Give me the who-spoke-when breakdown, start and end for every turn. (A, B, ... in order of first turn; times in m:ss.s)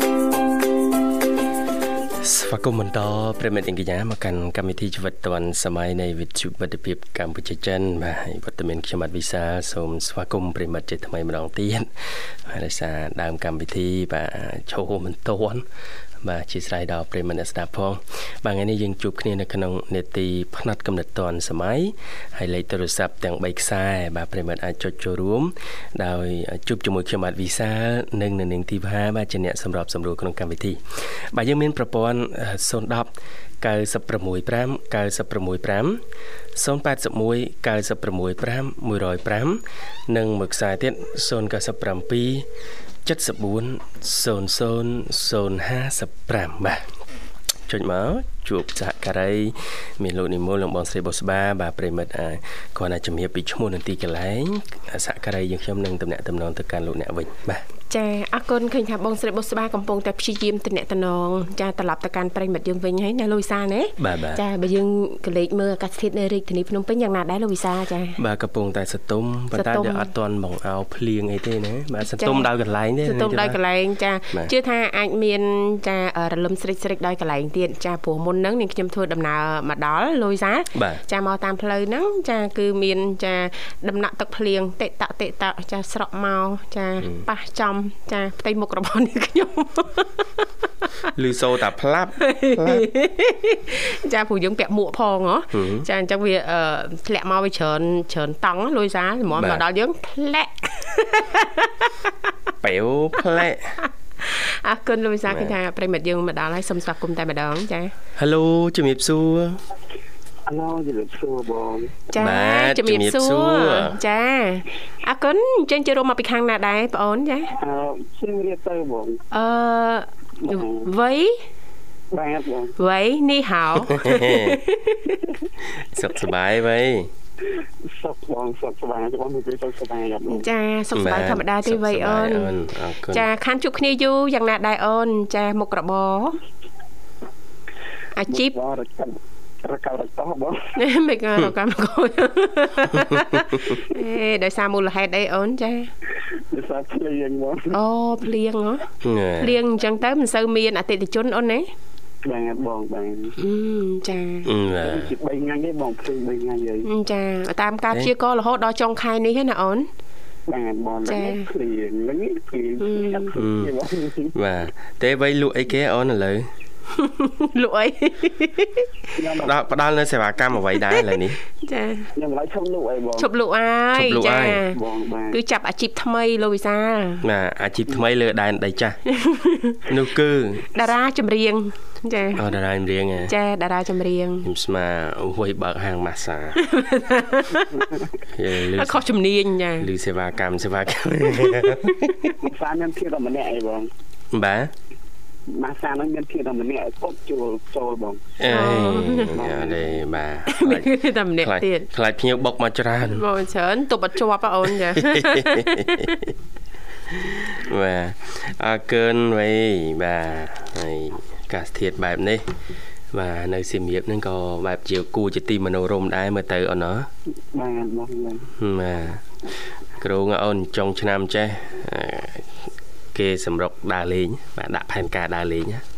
0:02.2-0:11.9 A
0:12.5-0:15.6 A
0:16.2-0:30.8 A
0:31.3-0:36.0 A
0:36.6-0:42.5 A
0:43.0-0:46.8 A
0:47.7-0:57.6 A
0:57.9-1:08.2 B
1:04.0-1:04.4 A
1:08.2-1:13.6 A
1:09.5-1:10.1 B
1:12.2-1:12.5 B
1:13.0-1:30.5 B
1:20.8-1:21.0 A
1:31.2-1:32.9 A
1:32.2-1:41.9 B
1:35.5-1:35.9 A
1:39.4-1:39.6 A
1:42.6-1:43.8 A
1:44.2-1:47.9 B
1:45.3-1:45.6 A
1:48.2-1:49.6 A
1:50.5-1:52.0 C
1:52.1-1:57.5 B
1:52.2-1:54.0 A
1:57.6-1:59.2 C
1:59.3-2:01.4 B
2:00.4-2:00.8 C
2:02.1-2:02.8 C
2:02.8-2:05.2 B
2:03.8-2:04.6 A
2:05.9-2:07.1 A
2:07.9-2:10.5 C
2:10.3-2:12.5 B
2:10.9-2:13.3 A
2:13.1-2:16.4 B
2:18.2-2:18.5 B
2:18.3-2:20.6 C
2:20.8-2:25.9 B
2:26.5-2:27.8 C
2:27.7-2:28.9 B
2:29.0-2:29.6 A
2:29.4-2:31.7 B
2:32.2-2:33.3 C
2:33.4-2:34.5 B
2:34.4-2:35.1 A
2:34.8-2:36.9 C
2:36.8-2:39.9 B
2:40.5-2:44.4 C
2:41.1-2:41.5 B
2:42.8-2:43.3 B
2:43.4-2:43.7 A
2:44.4-2:46.5 A
2:47.0-2:48.9 B
2:49.2-2:49.6 C
2:49.4-2:51.4 A
2:51.6-2:52.1 B
2:52.2-2:53.3 C
2:53.2-2:54.8 B
2:53.9-2:54.6 A
2:54.7-2:55.4 C
2:55.3-2:57.2 B
2:57.2-2:59.0 A
2:59.1-2:59.8 B
2:59.9-3:00.7 A
3:00.7-3:02.4 B
3:02.4-3:03.3 A
3:03.3-3:04.5 B
3:04.4-3:06.6 A
3:06.6-3:07.9 B
3:08.4-3:09.0 A
3:08.8-3:09.9 B
3:09.8-3:12.3 A
3:11.3-3:12.3 B
3:12.4-3:13.9 C
3:14.3-3:14.7 A
3:15.5-3:18.3 C
3:18.4-3:23.2 A
3:18.5-3:19.4 B
3:19.4-3:20.1 C
3:20.5-3:21.9 B
3:23.0-3:26.2 B
3:25.0-3:26.2 A
3:27.1-3:32.4 A
3:33.1-3:37.1 A
3:37.5-3:38.5 C
3:38.6-3:39.2 A
3:40.0-3:42.5 A
3:43.1-3:45.8 A